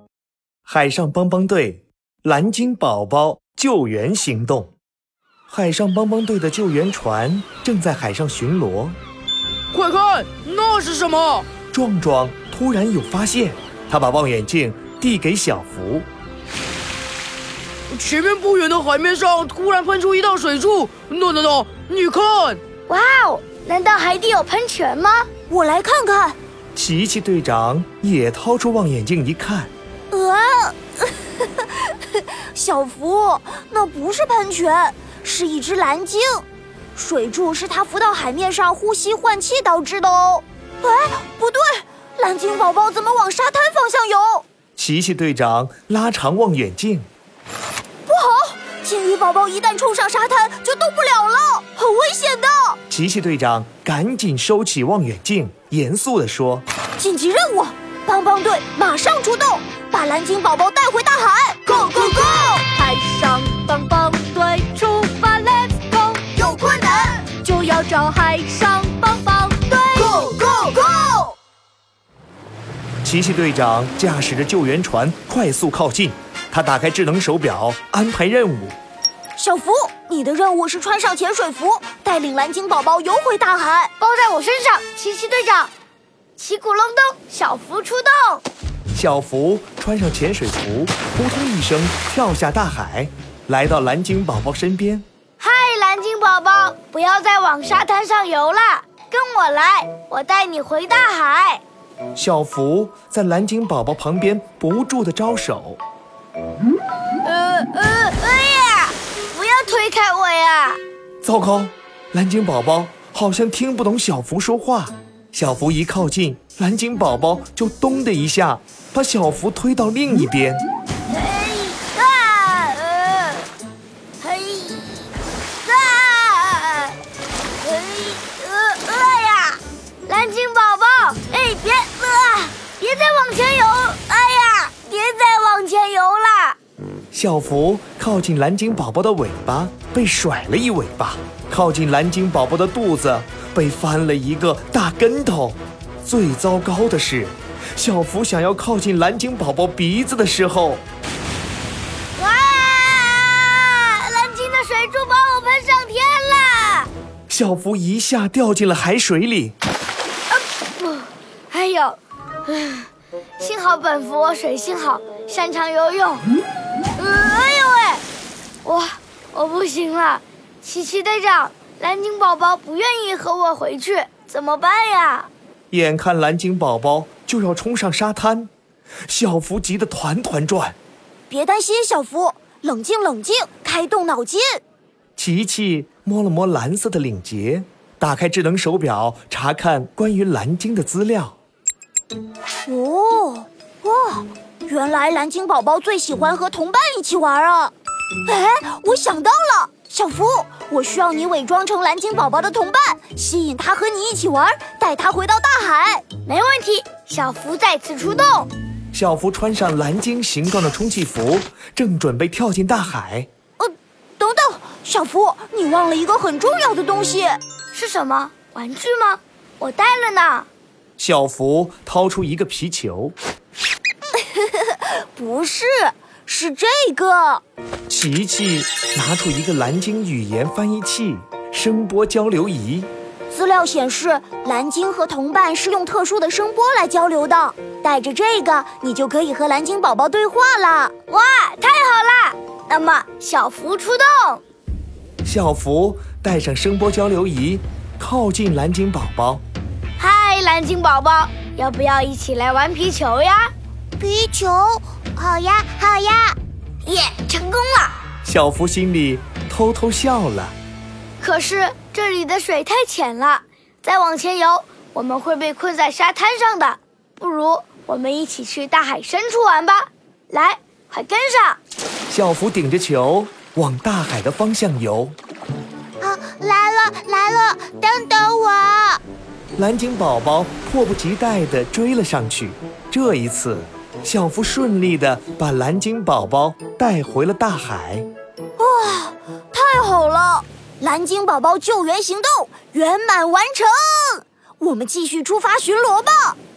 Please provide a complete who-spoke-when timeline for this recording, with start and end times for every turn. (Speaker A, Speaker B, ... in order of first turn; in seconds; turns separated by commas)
Speaker A: 0.7-4.7, Speaker A: 5.5-9.0, Speaker B: 9.7-11.5, Speaker A: 11.7-16.1, Speaker B: 17.9-22.6, Speaker C: 22.9-25.3, Speaker D: 25.5-26.4, Speaker A: 26.8-29.7, Speaker D: 30.1-36.5, Speaker D: 37.0-44.5, Speaker A: 44.8-47.1, Speaker D: 48.1-52.8, Speaker A: 52.9-56.6, Speaker D: 57.0-62.6, Speaker E: 62.7-66.2, Speaker D: 66.3-67.3, Speaker E: 67.3-69.7, Speaker D: 69.8-71.3, Speaker A: 73.0-78.8, Speaker D: 79.4-83.9, Speaker C: 84.0-85.7, Speaker C: 86.4-88.4, Speaker A: 88.9-95.0, Speaker C: 95.4-101.6, Speaker A: 102.2-105.8, Speaker C: 107.2-110.8, Speaker A: 111.2-120.6, Speaker C: 121.1-123.5, Speaker C: 124.2-127.0, Speaker C: 127.6-136.6, Speaker A: 137.1-150.8, Speaker C: 152.2-156.9, Speaker A: 157.3-159.6, Speaker C: 160.3-166.3, Speaker C: 167.0-168.0, Speaker C: 168.6-175.3, Speaker A: 175.7-178.5, Speaker A: 179.1-180.8, Speaker D: 181.3-184.6, Speaker A: 185.2-191.4, Speaker D: 192.7-197.7, Speaker D: 198.2-206.0, Speaker C: 206.2-208.5, Speaker A: 208.9-213.3, Speaker D: 213.6-217.4, Speaker C: 217.7-220.5, Speaker A: 221.0-223.2, Speaker D: 224.4-227.4, Speaker A: 227.9-232.9, Speaker D: 233.3-240.9, Speaker C: 241.1-244.4, Speaker A: 245.2-249.4, Speaker C: 250.0-253.5, Speaker D: 254.0-256.4, Speaker C: 256.8-258.0, Speaker A: 258.2-260.6, Speaker C: 261.2-271.6, Speaker A: 272.1-275.1, Speaker D: 276.0-279.0, Speaker A: 279.6-288.1, Speaker D: 288.6-296.4